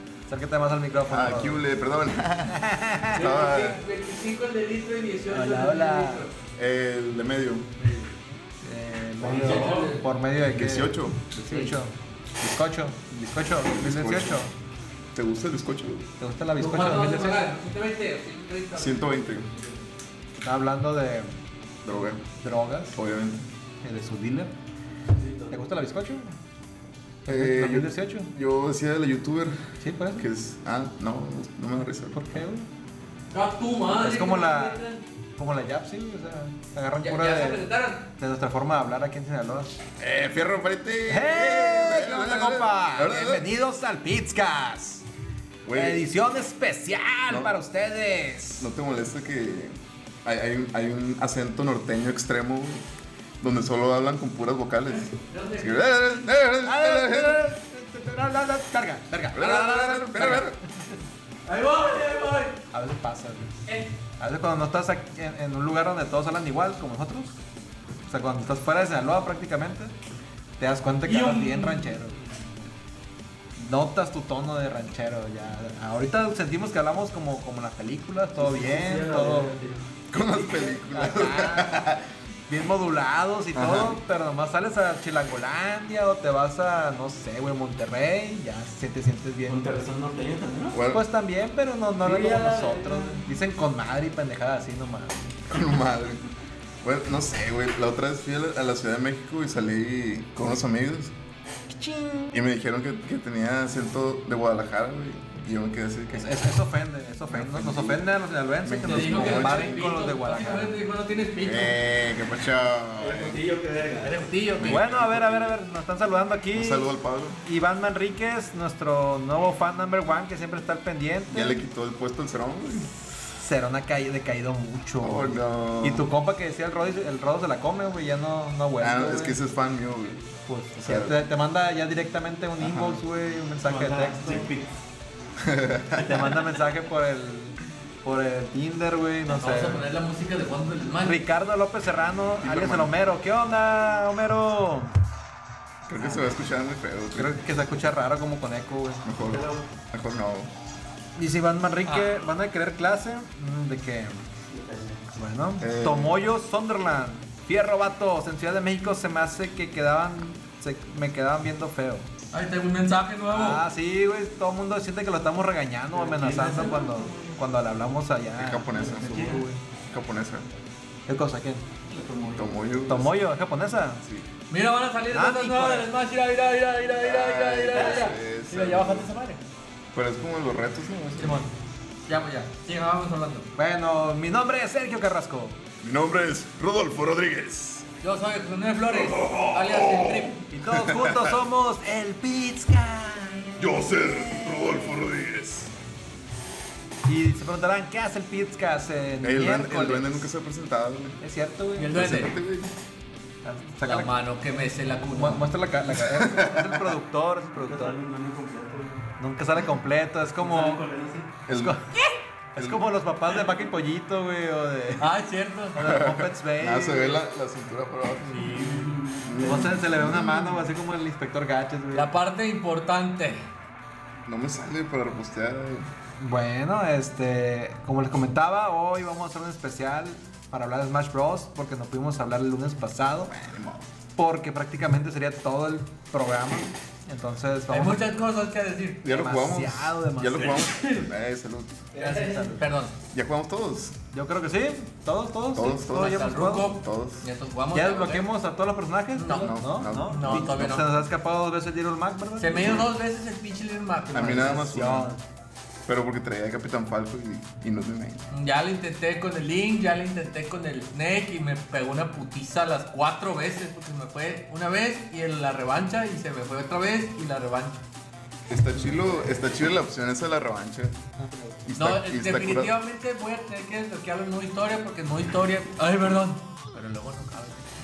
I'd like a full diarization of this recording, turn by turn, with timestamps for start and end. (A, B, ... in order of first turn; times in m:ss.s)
0:00.3-0:01.6 A
0:01.1-0:03.8 B
0:02.5-0:03.3 A
0:03.2-0:06.3 C
0:05.3-0:06.3 A
0:06.6-0:07.7 B
0:08.6-0:14.5 A
0:09.2-0:09.9 D
0:09.3-0:10.0 C
0:10.5-0:11.3 B
0:13.7-0:14.4 B
0:15.1-0:16.1 B
0:16.2-0:17.5 A
0:16.6-0:19.7 C
0:18.8-0:19.5 B
0:20.4-0:21.3 A
0:21.8-0:22.2 B
0:22.4-0:23.0 A
0:23.0-0:23.5 B
0:23.8-0:24.5 A
0:25.1-0:25.6 D
0:25.5-0:26.4 A
0:27.2-0:28.3 A
0:27.3-0:29.6 B
0:29.8-0:30.2 A
0:30.2-0:32.2 B
0:32.1-0:32.7 A
0:33.3-0:35.0 C
0:33.9-0:34.8 A
0:35.4-0:39.8 A
0:37.0-0:38.1 C
0:40.0-0:43.4 B
0:41.1-0:45.0 A
0:45.6-0:46.0 B
0:45.7-0:48.7 A
0:47.3-0:47.5 B
0:48.6-0:52.9 B
0:53.4-0:57.4 B
0:55.0-0:55.9 C
0:56.6-1:00.4 A
0:59.4-1:00.6 B
0:59.4-1:00.4 C
1:01.4-1:02.6 C
1:02.7-1:03.6 A
1:03.7-1:03.9 C
1:04.2-1:07.4 A
1:08.1-1:09.9 A
1:10.6-1:12.4 A
1:11.0-1:12.0 C
1:13.6-1:19.6 A
1:18.4-1:20.8 D
1:20.1-1:22.0 B
1:20.9-1:21.9 A
1:22.5-1:29.8 A
1:23.6-1:24.0 B
1:29.5-1:30.8 D
1:30.7-1:31.1 B
1:30.9-1:35.4 A
1:32.0-1:33.3 D
1:35.5-1:36.3 B
1:36.8-1:41.1 B
1:41.7-1:42.4 A
1:42.3-1:46.4 B
1:46.1-1:50.8 A
1:47.3-1:48.1 B
1:48.6-1:49.8 B
1:48.9-1:51.8 C
1:51.4-1:53.4 B
1:53.0-1:54.3 D
1:54.0-1:54.9 C
1:54.6-1:55.5 B
1:54.6-1:56.9 A
1:56.5-1:57.4 B
1:57.4-2:01.6 A
2:01.3-2:02.9 B
2:03.4-2:09.4 A
2:05.0-2:06.1 B
2:08.8-2:10.2 B
2:10.5-2:14.5 A
2:10.8-2:11.2 B
2:12.6-2:13.0 B
2:13.6-2:14.7 D
2:15.4-2:16.4 B
2:16.0-2:19.9 A
2:19.3-2:21.2 C
2:21.0-2:24.9 A
2:22.4-2:22.9 B
2:25.9-2:27.4 B
2:27.1-2:29.0 A
2:29.0-2:30.5 B
2:29.2-2:29.7 D
2:31.2-2:34.2 A
2:31.9-2:32.1 C
2:34.5-2:35.1 D
2:35.2-2:42.1 A
2:35.6-2:36.2 B
2:42.3-2:43.6 C
2:43.3-2:49.6 A
2:45.9-2:47.4 D
2:48.4-2:50.5 B
2:48.7-2:49.5 D
2:51.1-2:51.6 A
2:51.9-2:52.6 D
2:52.3-2:53.2 B
2:52.9-2:54.0 A
2:54.0-2:54.3 B
2:54.5-2:59.4 C
2:55.1-2:55.9 A
2:57.0-2:59.1 B
2:57.7-2:58.2 D
2:59.9-3:01.4 B
3:01.2-3:01.5 A
3:02.1-3:03.5 C
3:03.6-3:05.6 A
3:05.8-3:07.9 B
3:08.0-3:10.4 C
3:08.9-3:11.4 B
3:10.5-3:13.8 A
3:13.6-3:15.7 B
3:17.1-3:20.2 A
3:19.2-3:21.2 B
3:21.2-3:22.0 A
3:21.8-3:22.3 C
3:21.9-3:22.7 B
3:23.4-3:24.1 A
3:23.8-3:25.5 C
3:25.1-3:28.0 A
3:25.9-3:27.0 B
3:27.6-3:29.0 D
3:29.2-3:30.8 A
3:30.4-3:31.4 D
3:31.5-3:31.8 B
3:31.5-3:31.9 A
3:32.6-3:35.1 A
3:32.6-3:32.8 B
3:35.0-3:35.9 C
3:35.8-3:37.2 A
3:35.8-3:40.6 B
3:38.3-3:38.9 C
3:38.5-3:39.8 D
3:39.4-3:42.1 A
3:41.9-3:43.4 C
3:44.2-3:45.9 B
3:46.2-3:53.3 A
3:53.3-3:53.9 B
3:54.2-3:58.0 A
3:57.7-3:59.0 C
3:59.0-4:01.8 B
3:59.1-4:00.6 A
4:00.6-4:01.1 D
4:01.9-4:02.6 D
4:02.0-4:02.6 A
4:02.6-4:03.0 C
4:03.1-4:04.0 B
4:04.1-4:06.8 A
4:05.5-4:07.3 B
4:05.9-4:08.3 C
4:07.7-4:12.8 A
4:09.2-4:11.0 C
4:09.4-4:10.8 B
4:12.4-4:14.8 C
4:14.1-4:15.1 B
4:14.4-4:15.2 A
4:15.9-4:18.2 B
4:18.3-4:27.8 C
4:28.5-4:31.0 B
4:31.2-4:31.6 A
4:31.6-4:32.7 B
4:31.8-4:37.7 C